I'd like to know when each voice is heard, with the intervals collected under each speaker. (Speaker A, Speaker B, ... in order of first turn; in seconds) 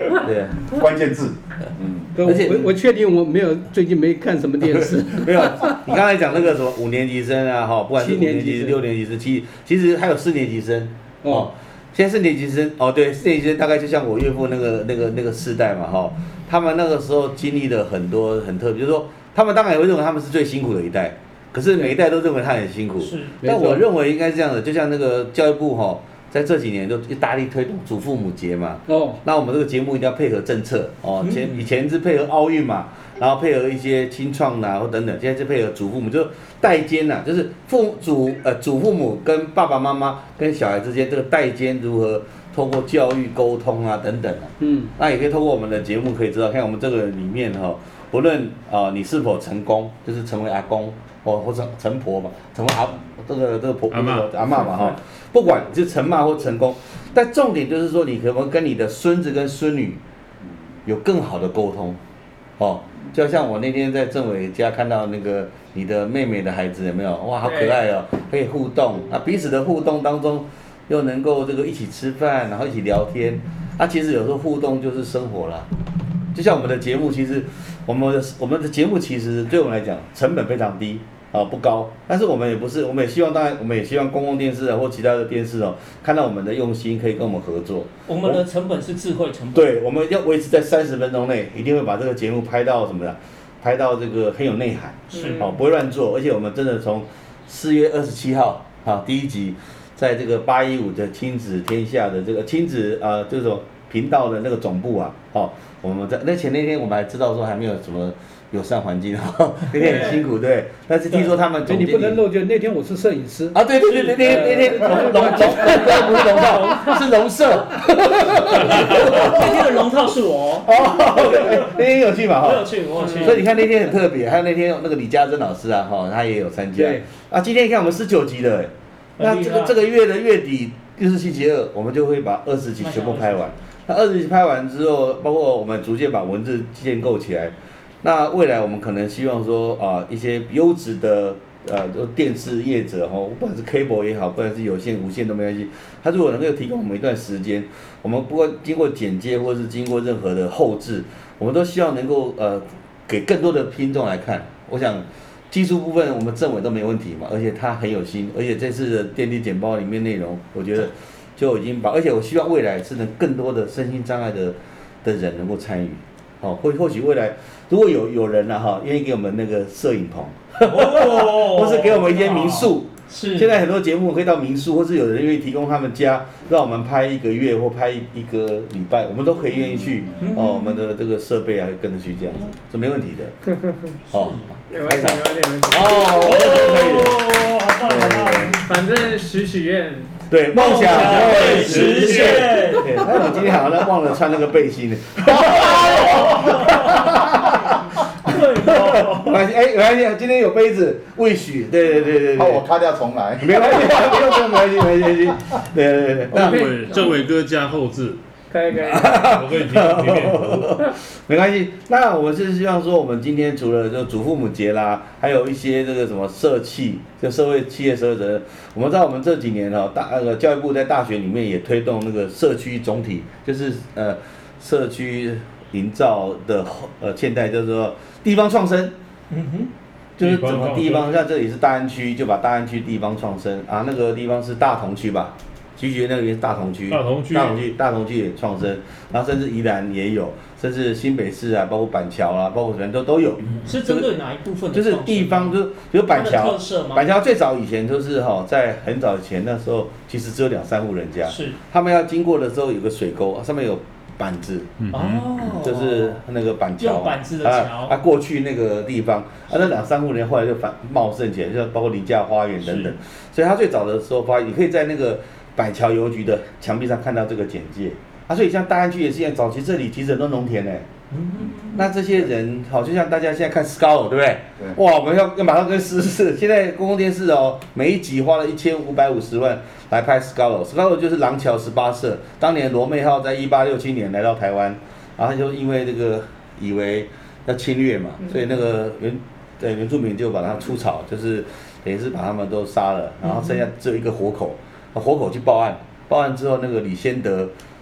Speaker A: 0.1-0.7, 2.2-2.7, 4.7-60.0, 60.8-62.0, 62.6-75.7, 76.3-88.4, 89.5-112.2, 113.5-119.7, 120.6-183.4, 184.1-188.6, 190.3-202.6, 203.4-206.7, 208.8-228.9, 230.2-244.1, 244.7-254.7, 255.4-270.9, 271.7-297.5
Speaker B: 0.7-2.1, 202.3-204.3
Speaker C: 2.1-5.8, 8.0-8.8, 11.2-11.5, 23.4-23.9, 28.9-29.2, 44.6-44.9, 111.6-116.6
Speaker D: 23.0-23.4, 31.2-31.6, 88.1-89.7, 95.1-95.5, 109.8-110.2, 113.8-117.0, 118.5-121.8, 122.4-123.7, 129.2-129.8, 132.8-133.5, 170.7-173.5, 180.2-180.8, 184.1-184.4, 186.1-188.6, 190.5-193.1, 195.4-197.2, 198.2-199.4, 229.3-229.7, 243.6-245.5, 246.1-247.1, 251.2-251.6, 254.9-256.2, 256.8-258.0, 271.1-271.9
Speaker E: 53.9-54.3, 206.3-208.2, 209.1-210.7, 230.2-231.2, 236.9-237.6, 254.8-255.3
Speaker F: 67.4-67.8, 95.1-95.5, 183.5-183.9, 184.7-186.3, 188.6-192.7, 206.4-207.2, 208.5-209.3